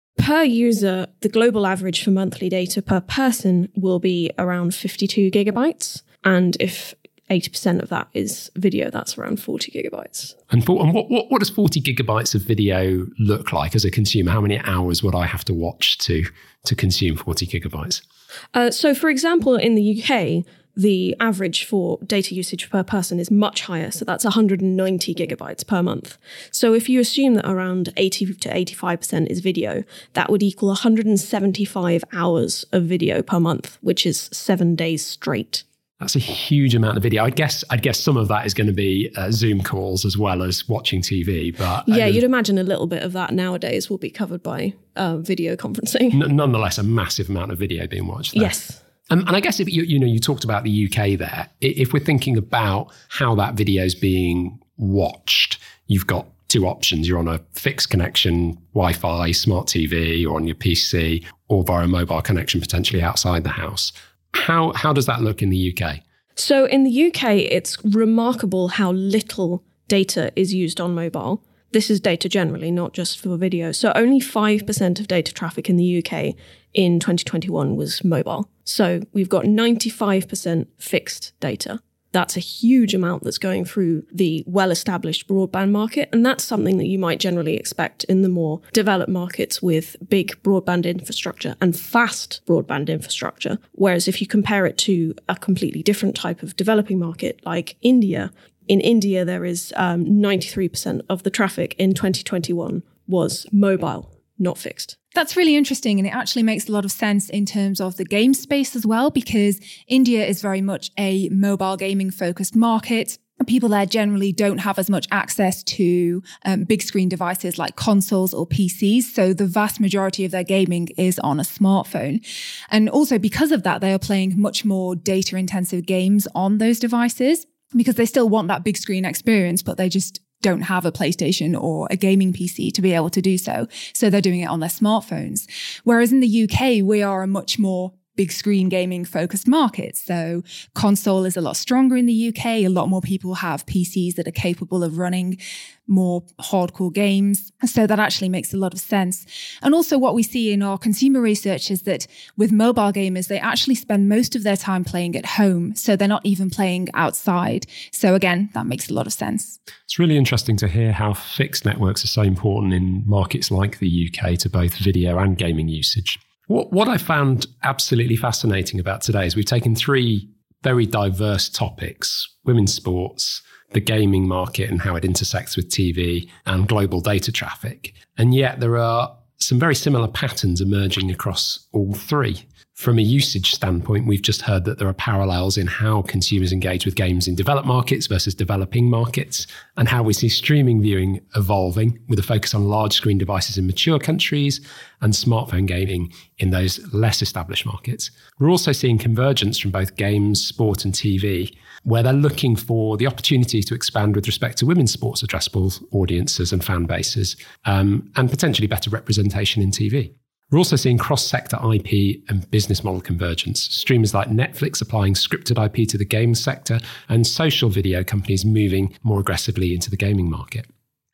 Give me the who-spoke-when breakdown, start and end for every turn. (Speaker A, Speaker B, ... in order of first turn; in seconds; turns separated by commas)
Speaker A: 0.2-10.3, Speaker B: 10.5-18.0, Speaker A: 18.5-35.6, Speaker B: 36.0-42.2, Speaker A: 41.9-46.2, Speaker B: 46.1-48.5, Speaker A: 48.4-48.8, Speaker B: 49.1-66.0, Speaker A: 66.4-105.0, Speaker C: 105.1-159.6, Speaker B: 159.9-220.7